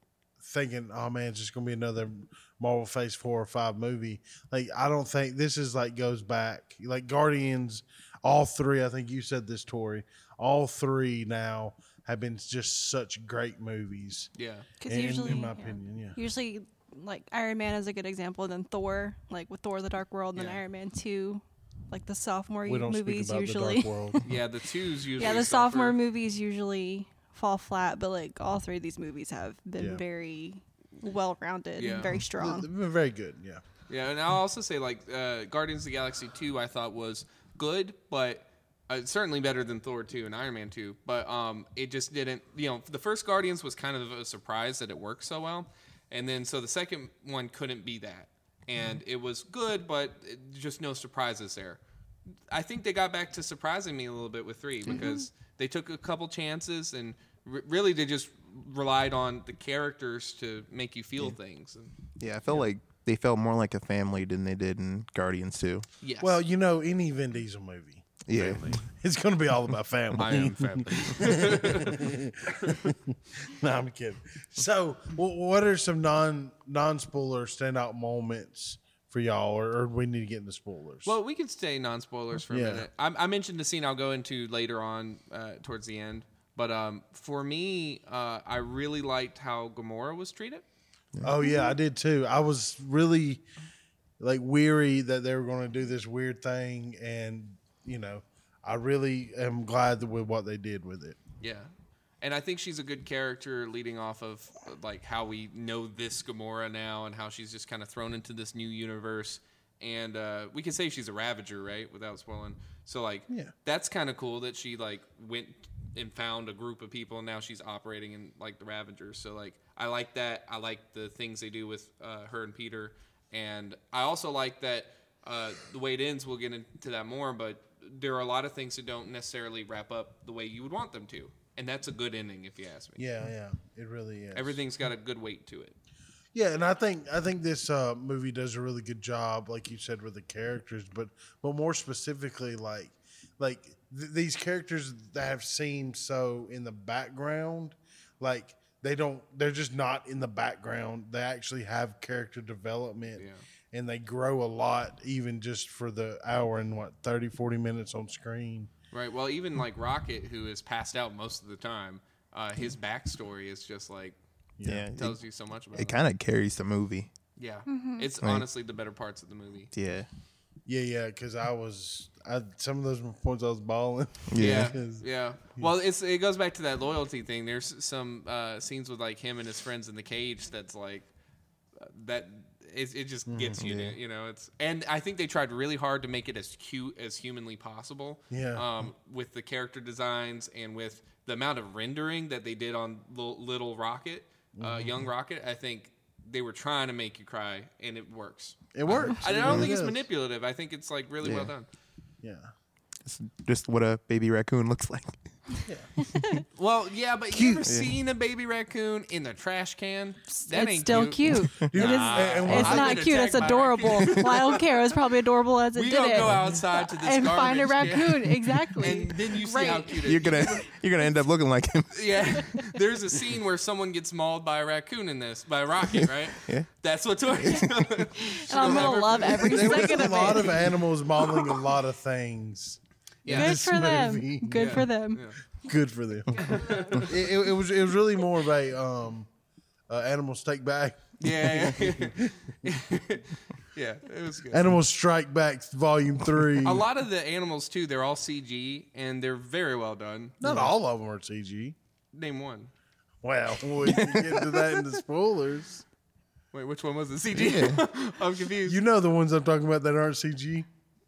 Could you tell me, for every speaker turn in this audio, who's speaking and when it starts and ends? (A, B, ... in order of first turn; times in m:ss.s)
0:00.4-0:14.3 A
0:14.4-0:14.7 B
0:14.8-0:24.4 C
0:14.9-0:16.2 A
0:20.4-0:20.6 B
0:22.7-0:24.2 A
0:24.2-0:26.0 B
0:25.2-0:32.7 C
0:29.8-0:30.0 A
0:31.8-0:32.2 B
0:32.4-0:33.6 A
0:33.9-0:51.8 B
0:52.5-1:01.9 B
0:54.9-0:55.2 C
1:02.2-1:05.9 D
1:06.0-1:06.3 B
1:06.2-1:21.2 A
1:08.3-1:08.8 D
1:08.3-1:08.8 B
1:10.2-1:12.9 B
1:21.0-1:30.6 B
1:22.5-1:22.9 A
1:31.2-1:33.4 A
1:31.4-1:31.7 C
1:34.2-1:41.2 A
1:41.4-1:41.7 B
1:42.2-2:13.1 B
2:13.0-2:14.6 A
2:14.3-2:15.8 B
2:16.3-2:38.7 A
2:33.2-2:33.4 B
2:38.9-2:44.2 B
2:44.6-2:44.9 A
2:44.6-2:45.2 D
2:45.0-2:46.0 B
2:45.7-2:47.1 D
2:47.4-2:49.7 B
2:47.7-2:48.1 C
2:48.2-2:48.5 D
2:49.7-2:50.1 D
2:50.7-2:55.0 A
2:54.3-2:54.8 D
2:54.4-3:01.1 B
3:01.8-3:21.7 B
3:03.3-3:03.6 A
3:03.6-3:04.0 D
3:08.3-3:08.6 A
3:14.6-3:15.0 A
3:18.7-3:20.0 A
3:19.4-3:19.7 D
3:21.2-3:21.5 D
3:22.2-3:22.5 A
3:23.0-3:25.2 D
3:26.0-3:26.4 C
3:26.5-3:34.7 B
3:27.3-3:27.7 A
3:27.6-3:27.9 D
3:30.4-3:40.6 C
3:31.7-3:33.2 A
3:35.7-3:40.7 B
3:40.0-3:42.4 D
3:41.9-3:50.6 B
3:46.0-3:46.7 D
3:47.4-3:47.7 D
3:48.2-3:50.8 C
3:48.6-3:54.9 A
3:53.2-3:53.6 B
3:53.3-3:55.2 C
3:54.5-3:55.4 B
3:55.6-3:59.3 A
3:56.3-3:57.4 C
3:56.4-3:57.2 B
3:59.9-4:02.7 A
4:01.2-4:04.8 B
4:04.5-4:06.9 A
4:06.6-4:10.4 B
4:10.4-4:11.8 A
4:10.4-4:10.7 D
4:12.1-4:12.7 B
4:13.2-4:15.8 A
4:13.8-4:14.6 D
4:16.5-4:18.8 B
4:17.3-4:17.9 D
4:18.6-4:20.7 A